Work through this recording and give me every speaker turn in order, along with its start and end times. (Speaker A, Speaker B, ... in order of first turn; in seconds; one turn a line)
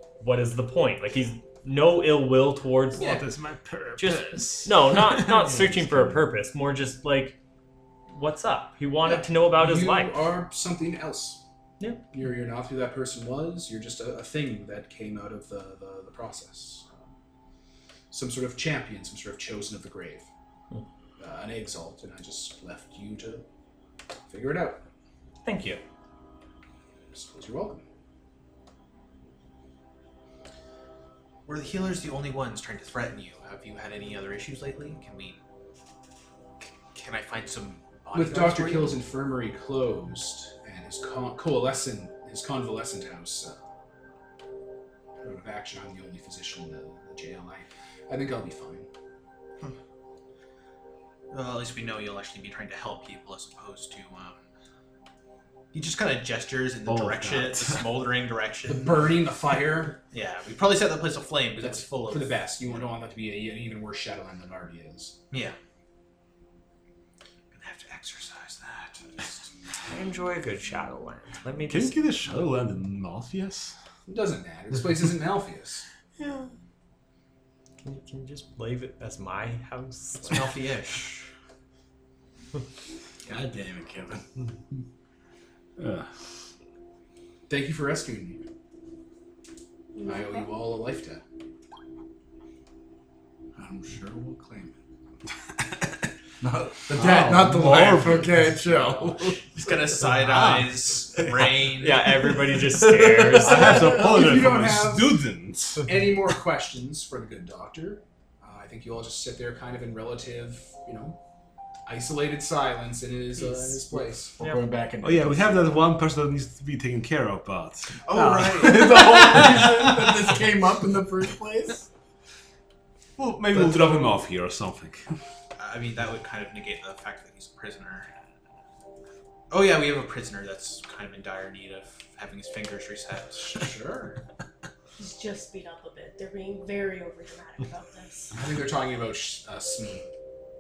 Speaker A: 0.2-3.2
Speaker B: 3.0-6.3
Speaker A: 4.0-7.4
Speaker A: 8.1-10.3
Speaker C: 9.1-11.4
Speaker A: 11.8-12.1
Speaker C: 12.1-16.9
Speaker C: 18.1-20.3
Speaker C: 21.2-23.4
Speaker C: 24.3-24.8
Speaker A: 25.4-25.8
Speaker C: 27.1-27.8
Speaker D: 31.5-35.4
Speaker D: 36.6-39.0
Speaker C: 38.1-43.6
Speaker C: 45.3-48.9
Speaker D: 51.3-54.4
Speaker D: 55.7-59.0
Speaker B: 56.9-57.9
Speaker C: 58.7-60.0
Speaker D: 60.1-62.9
Speaker C: 61.6-65.2
Speaker D: 65.3-65.6
Speaker D: 67.5-69.5
Speaker A: 69.9-72.0
Speaker B: 71.7-73.7
Speaker C: 74.1-75.8
Speaker A: 76.2-76.5
Speaker A: 77.8-80.6
Speaker D: 80.2-81.2
Speaker E: 83.3-84.2
Speaker C: 87.5-88.4
Speaker F: 90.0-90.5
Speaker C: 90.0-91.2
Speaker E: 93.6-94.7
Speaker E: 96.4-99.3
Speaker B: 96.9-98.6
Speaker D: 99.5-102.0
Speaker B: 100.2-100.7
Speaker A: 101.8-104.1
Speaker B: 102.6-105.9
Speaker C: 103.5-105.1
Speaker C: 105.8-111.2
Speaker C: 111.9-114.3
Speaker E: 113.9-115.8
Speaker B: 115.0-118.0
Speaker E: 118.1-121.9
Speaker C: 118.1-118.7
Speaker D: 118.1-118.8
Speaker B: 118.6-120.1
Speaker B: 123.2-125.0
Speaker E: 123.5-124.0
Speaker D: 125.6-128.1
Speaker D: 129.5-133.7
Speaker C: 133.3-134.2
Speaker F: 135.0-138.4
Speaker C: 138.3-140.1